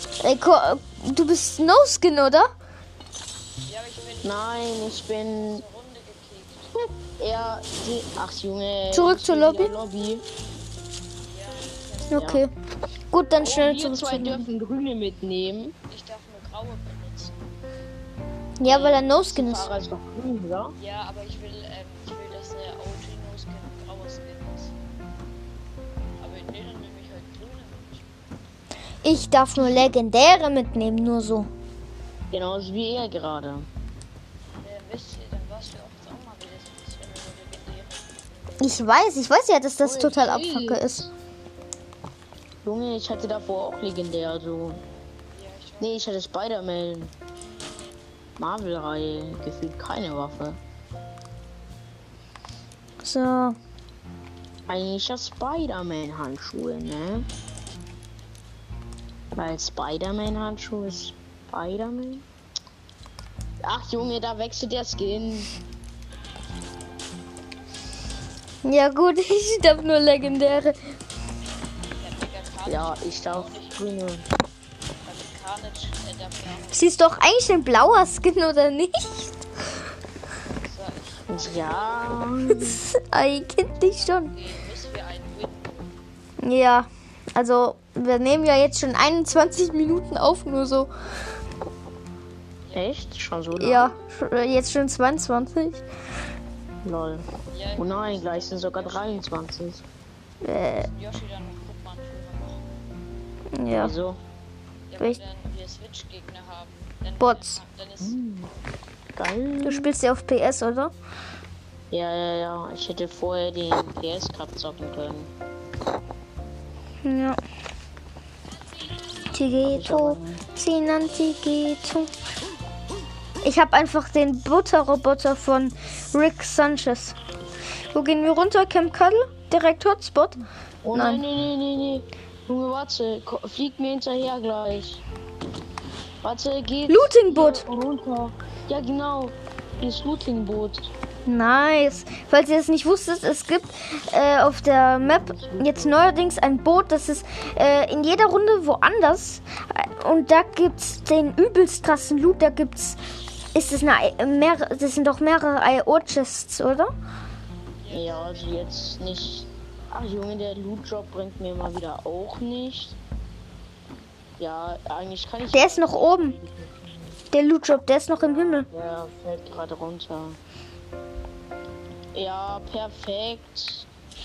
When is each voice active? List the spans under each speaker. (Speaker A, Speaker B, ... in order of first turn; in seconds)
Speaker A: 0.2-2.5, 8.9-9.7, 12.1-12.5, 13.1-14.4, 18.6-19.7, 29.0-31.5, 38.6-41.0, 53.0-53.6, 68.6-70.8, 76.7-79.3, 82.5-84.3, 86.4-90.9, 93.5-95.8, 100.4-100.9, 103.5-103.9, 107.2-107.6, 109.6-110.9, 117.0-117.4, 119.3-122.1, 123.4-127.2, 127.9-130.4, 130.9-131.2, 136.9-137.6, 141.2-153.0, 153.5-156.9, 165.5-166.3, 167.3-168.7
Speaker B: 3.6-6.8, 11.2-12.4, 15.9-17.4, 20.8-24.7, 26.2-28.1, 34.6-38.8, 45.3-46.1, 72.0-73.9, 75.0-77.0, 80.5-82.3, 83.8-86.0, 92.6-93.0, 97.5-99.3, 100.8-102.6, 104.9-108.2, 157.8-158.8
Speaker C: 4.2-5.6, 6.7-10.2, 12.1-12.4, 13.4-15.7, 18.6-20.7, 32.3-33.7, 39.8-41.1, 42.6-44.8, 45.8-47.1, 48.4-50.6, 54.7-57.3, 59.3-62.2, 63.6-65.5, 72.7-74.3, 81.3-82.8, 92.7-93.9, 96.8-99.8, 103.8-104.2, 108.0-108.5, 109.1-109.9, 111.9-115.3, 119.6-120.4, 130.8-135.0, 136.2-140.9, 145.1-146.0, 157.9-163.0, 164.4-167.2, 168.2-170.4, 172.1-173.8